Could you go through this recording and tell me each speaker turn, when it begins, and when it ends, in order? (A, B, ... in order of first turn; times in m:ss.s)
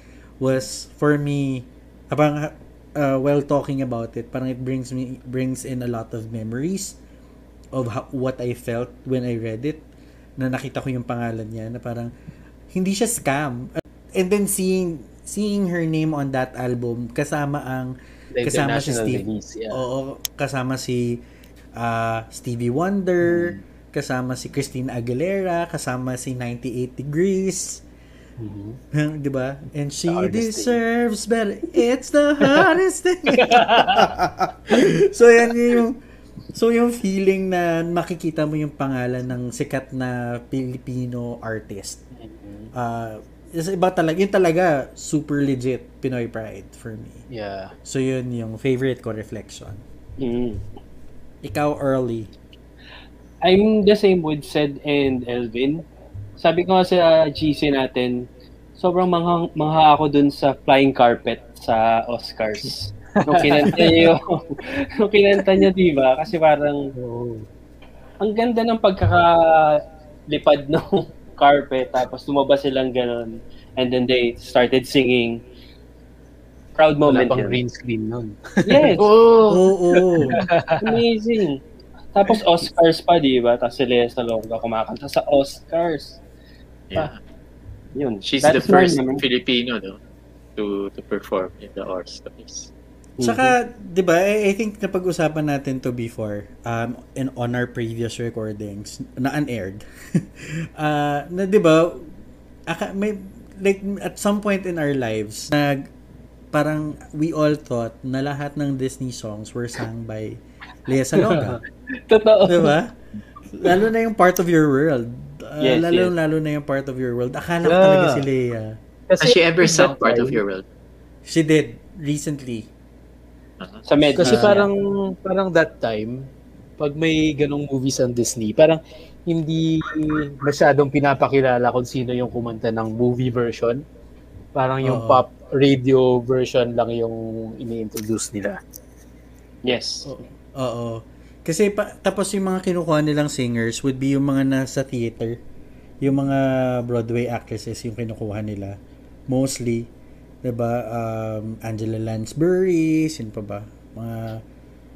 0:00.4-0:07.0 A
0:07.7-0:09.8 A
0:10.4-0:12.1 A
0:12.7-0:21.2 A
0:18.3-0:19.8 B
0:21.8-0:27.8 A
0:23.2-0:23.6 B
0:28.4-0:28.8 B
0:28.9-0:36.0 A
0:30.1-0:30.8 B
0:33.4-0:34.1 B
0:36.5-0:42.0 A
0:42.1-0:42.7 B
0:42.7-0:47.2 A
0:47.3-0:47.7 B
0:47.8-0:49.8 A
0:50.2-0:50.6 C
0:51.4-0:52.3 A
0:53.4-0:55.8 C
0:56.4-0:58.3 C
0:58.8-1:06.9 C
1:03.1-1:04.1 B
1:07.0-1:07.5 B
1:08.2-1:15.4 C
1:16.8-1:17.6 C
1:17.1-1:21.0 B
1:18.6-1:19.1 C
1:19.5-1:20.4 A
1:20.8-1:21.6 C
1:22.1-1:26.2 C
1:27.9-1:29.2 C
1:28.2-1:30.0 D
1:30.6-1:32.7 D
1:33.2-1:33.5 C
1:33.2-1:42.1 A
1:42.7-1:45.9 A
1:46.5-1:51.6 A
1:52.1-1:52.7 C
1:52.4-1:52.9 A
1:53.5-1:58.8 A
1:55.6-1:56.1 C
1:57.6-1:58.2 B
1:59.1-2:00.4 B
1:59.2-2:00.6 D
2:01.2-2:02.7 A
2:03.6-2:03.8 D
2:03.9-2:04.7 C
2:04.2-2:04.6 A
2:04.2-2:13.8 B
2:14.5-2:18.6 B
2:14.8-2:15.2 A
2:19.6-2:20.1 C
2:20.0-2:25.4 A
2:26.0-2:28.8 A
2:29.3-2:29.9 A
2:30.4-2:34.4 A